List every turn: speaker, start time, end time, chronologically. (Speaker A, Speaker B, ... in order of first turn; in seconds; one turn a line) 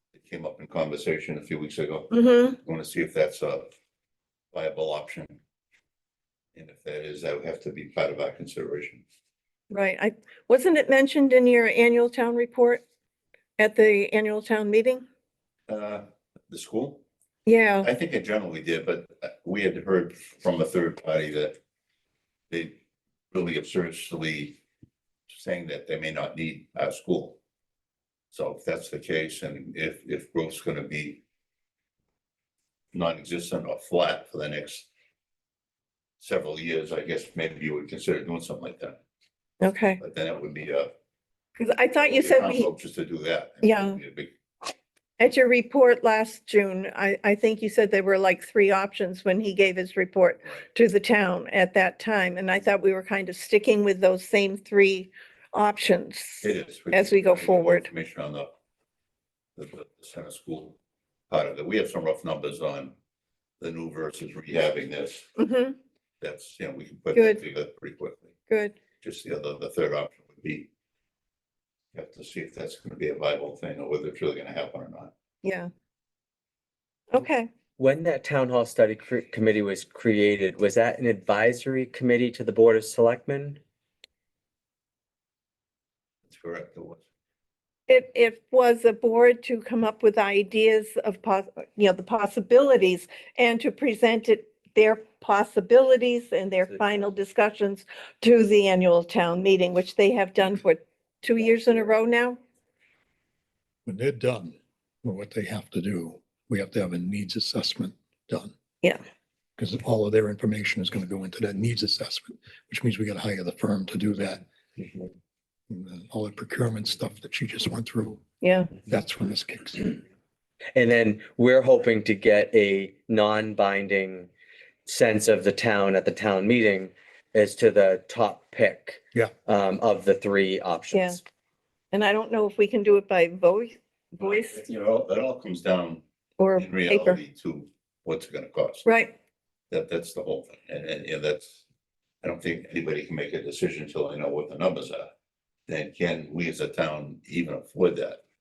Speaker A: 0.1-3.7
Speaker B: 2.1-2.6
Speaker A: 4.5-5.4
Speaker A: 6.5-9.0
Speaker B: 9.7-12.8
Speaker B: 13.6-15.0
Speaker A: 15.7-17.0
Speaker B: 17.5-17.9
Speaker A: 17.8-21.6
Speaker A: 22.5-22.8
Speaker A: 23.3-24.6
Speaker A: 25.3-27.4
Speaker A: 28.3-31.2
Speaker A: 32.9-34.9
Speaker A: 36.2-39.0
Speaker B: 39.6-40.0
Speaker A: 40.0-40.9
Speaker B: 41.6-42.7
Speaker A: 42.0-44.3
Speaker B: 43.6-44.0
Speaker B: 45.2-57.9
Speaker A: 56.4-58.5
Speaker A: 59.6-60.8
Speaker A: 61.3-63.0
Speaker A: 63.6-65.3
Speaker B: 65.4-65.8
Speaker A: 66.2-68.3
Speaker B: 67.1-67.4
Speaker B: 68.5-68.8
Speaker A: 69.0-70.7
Speaker A: 71.9-75.1
Speaker B: 75.4-75.7
Speaker B: 77.1-77.5
Speaker C: 77.8-83.6
Speaker A: 86.3-87.0
Speaker B: 87.9-102.4
Speaker D: 103.9-108.5
Speaker D: 109.6-114.5
Speaker D: 115.7-118.2
Speaker B: 118.4-118.7
Speaker D: 118.8-120.0
Speaker C: 120.8-124.3
Speaker C: 124.9-131.2
Speaker B: 130.9-131.2
Speaker B: 131.9-134.6
Speaker A: 134.2-136.0
Speaker B: 136.4-137.2
Speaker A: 136.6-138.9
Speaker B: 138.8-139.1
Speaker A: 139.7-141.6
Speaker A: 142.2-145.1
Speaker A: 145.7-148.2